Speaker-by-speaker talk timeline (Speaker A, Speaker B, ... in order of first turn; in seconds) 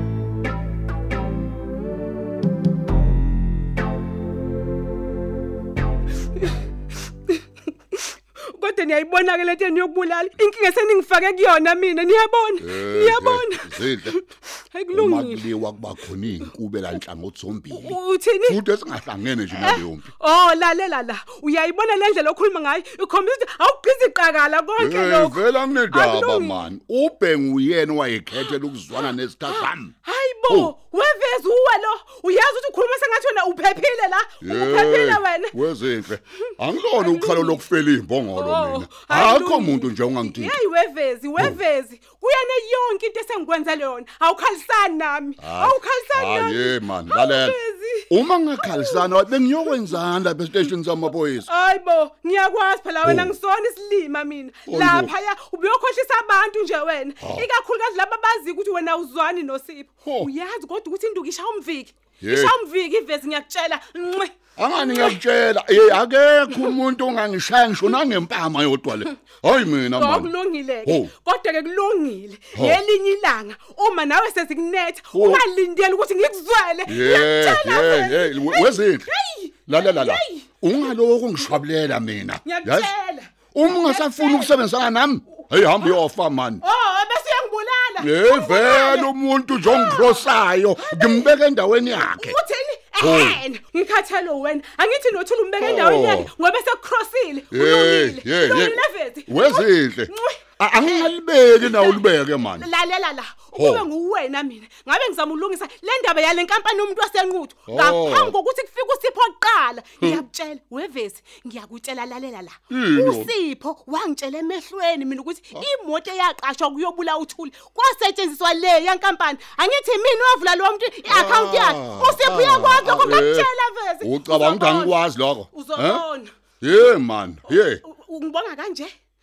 Speaker A: 7.9-15.4, 17.7-18.6, 19.5-26.6, 29.5-35.5, 37.0-37.7, 38.3-49.9, 51.4-65.2, 69.9-80.9, 82.4-84.5, 86.6-89.1, 89.6-91.3, 91.9-126.3, 127.5-128.9
Speaker B: 12.6-14.1, 14.9-20.1, 24.8-29.9, 34.4-40.6, 45.4-47.6, 48.1-51.5, 53.0-53.3, 54.7-55.1, 57.2-57.5, 62.2-62.5, 64.6-70.3, 70.8-71.1, 72.5-72.8, 75.1-75.4, 76.8-79.1, 79.7-82.9, 83.5-86.6, 88.0-92.4, 93.0-93.4, 95.6-96.3, 97.5-102.7, 103.5-103.9, 107.7-108.3, 112.7-113.3, 121.1-123.5, 124.0-126.0, 126.6-127.8